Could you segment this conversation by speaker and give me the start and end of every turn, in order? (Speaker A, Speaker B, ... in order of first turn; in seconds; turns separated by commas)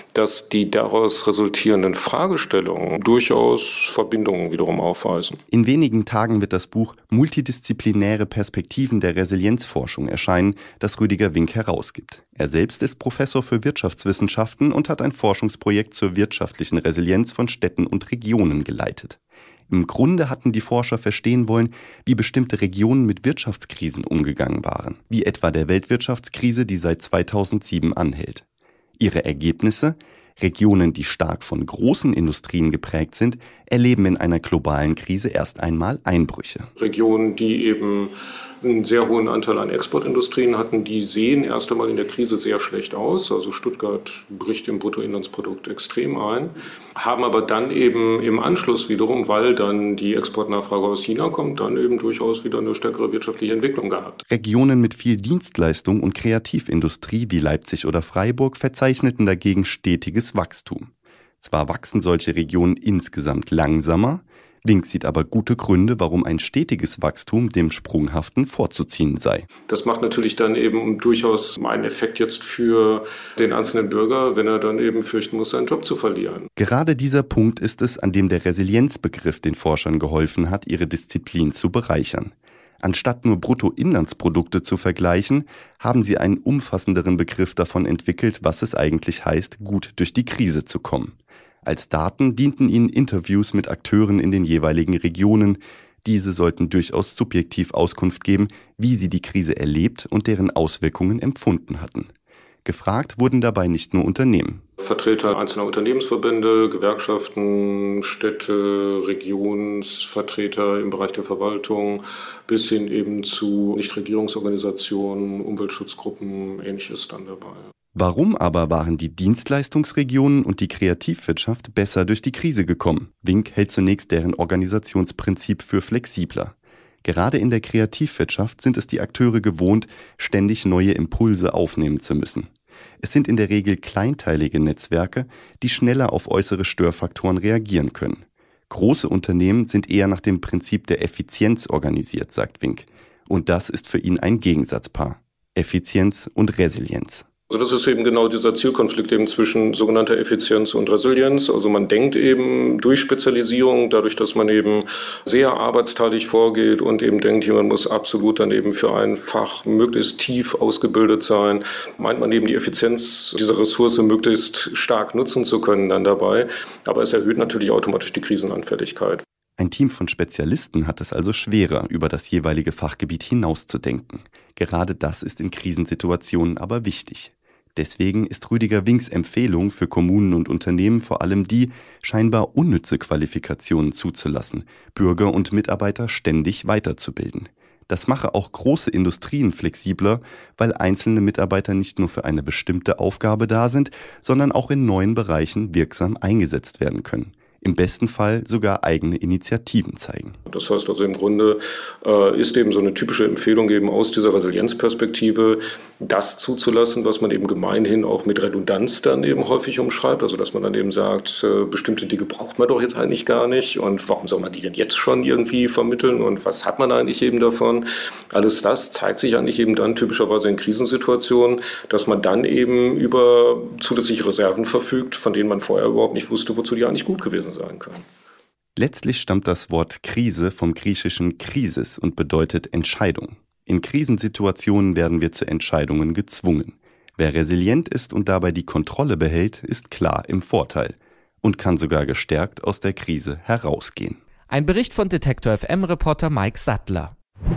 Speaker A: 0.1-5.4, Speaker B: 5.5-28.4, Speaker B: 29.0-36.7, Speaker A: 36.8-54.2, Speaker B: 54.3-69.5, Speaker A: 69.7-76.5, Speaker B: 76.6-102.1, Speaker B: 102.7-104.6, Speaker A: 104.8-117.7, Speaker B: 118.0-132.5, Speaker B: 133.0-147.2, Speaker A: 147.5-169.2, Speaker B: 169.6-200.4, Speaker A: 200.5-228.0, Speaker B: 228.8-244.2, Speaker C: 244.5-247.1